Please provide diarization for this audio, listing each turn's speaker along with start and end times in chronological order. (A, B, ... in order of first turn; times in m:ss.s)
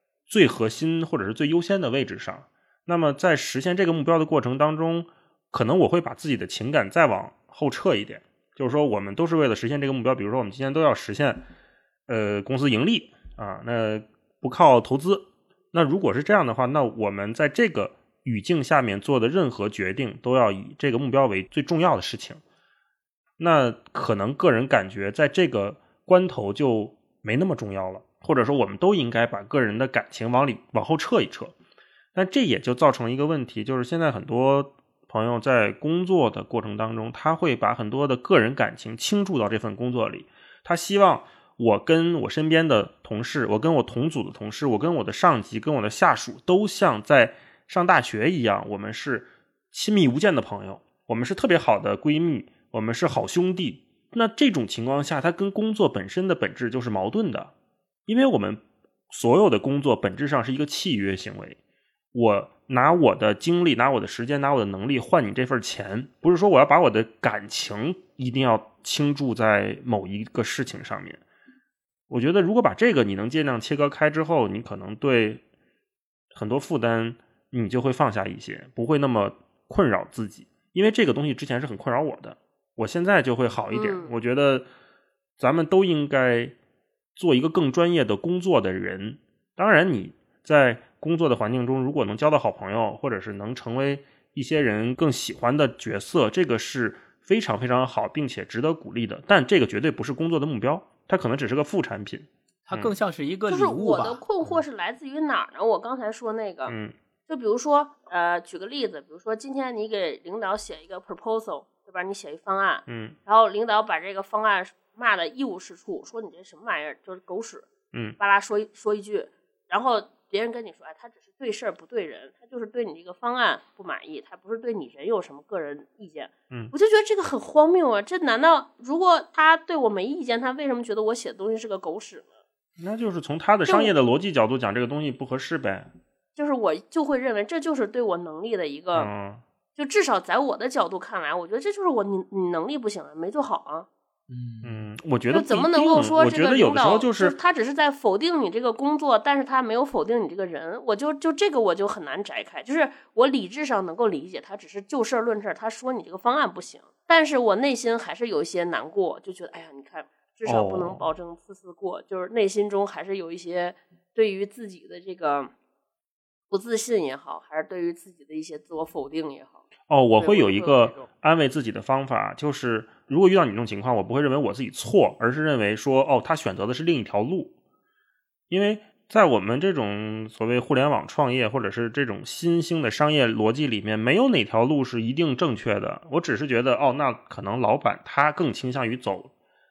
0:00.3-0:11.4 A
0:12.1-0:22.4 A
0:23.4-0:31.5 A
0:32.1-0:57.5 A
0:58.1-1:01.6 A
1:02.1-1:11.2 A
1:12.1-1:15.4 A
1:16.3-1:24.6 A
1:23.7-1:24.1 B
1:25.4-1:26.5 A
1:27.2-1:42.9 A
1:42.7-1:44.2 C
1:43.5-1:46.7 B
1:46.7-1:46.9 A
1:47.3-1:57.6 B
1:52.9-1:53.2 A
1:58.2-2:12.3 B
2:12.8-2:15.9 A
2:13.6-2:13.9 B
2:16.4-2:19.1 B
2:18.9-2:19.4 A
2:19.8-2:23.9 B
2:24.3-2:24.8 C
2:24.6-2:27.3 A
2:25.3-2:45.5 B
2:40.4-2:41.0 A
2:46.5-2:49.6 B
2:49.9-2:57.5 A
2:50.2-2:51.1 B
2:58.5-3:09.3 A